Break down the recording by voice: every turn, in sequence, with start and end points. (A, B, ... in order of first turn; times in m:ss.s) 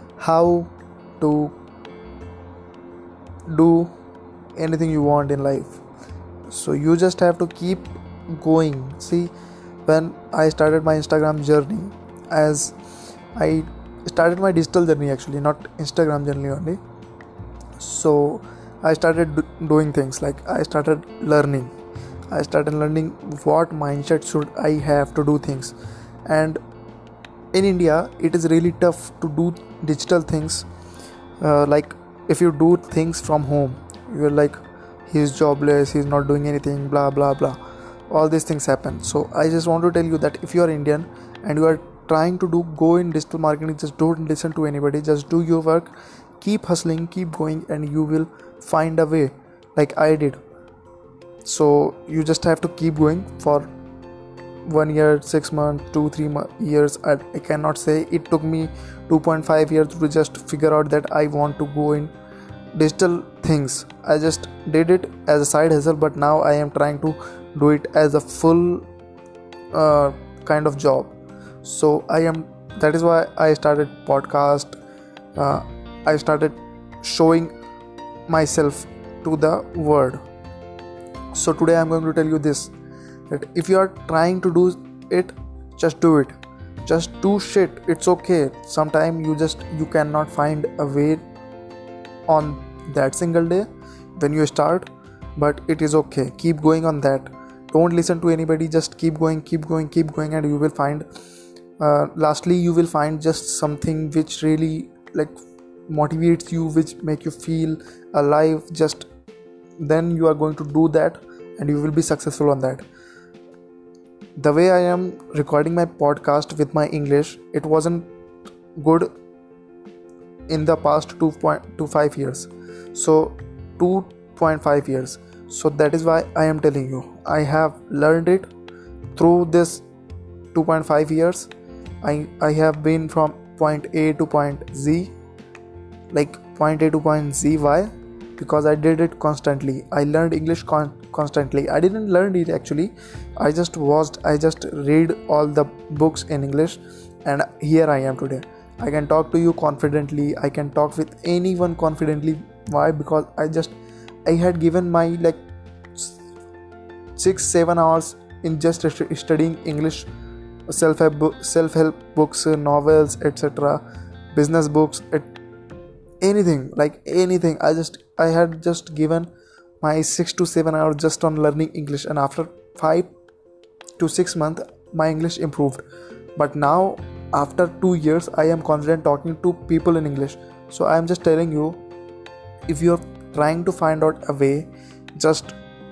0:00.2-0:01.6 A
0:03.5-0:03.9 A
0:04.6-0:05.8 A
0:06.5-0:09.3 A
0:09.8-0:12.7 A
0:13.3-0:16.8 A
0:17.8-0:21.7 A
0:22.3-0:26.6 A
0:27.5-0:30.6 A
0:31.4-0:37.6 A
0:38.1-0:50.4 A
0:51.4-0:53.7 A
0:54.6-1:02.1 A
1:02.7-1:08.9 A
1:09.7-1:14.7 A
1:15.4-1:17.5 A
1:18.3-1:20.2 A
1:21.3-1:22.7 A
1:23.3-1:31.2 A
1:32.3-1:41.0 A
1:41.8-1:45.3 A
1:45.9-1:49.1 A
1:49.8-1:52.8 A
1:54.4-1:58.1 A
1:58.8-1:59.1 A
2:00.5-2:08.5 A
2:09.1-2:09.8 A
2:10.5-2:11.5 A
2:12.0-2:15.1 A
2:16.1-2:33.7 A
2:34.2-2:35.4 A
2:37.2-2:40.1 A
2:40.7-2:45.3 A
2:46.2-2:49.3 A
2:49.8-2:53.1 A
2:54.0-2:55.8 A
2:56.4-3:01.8 A
3:02.7-3:05.5 A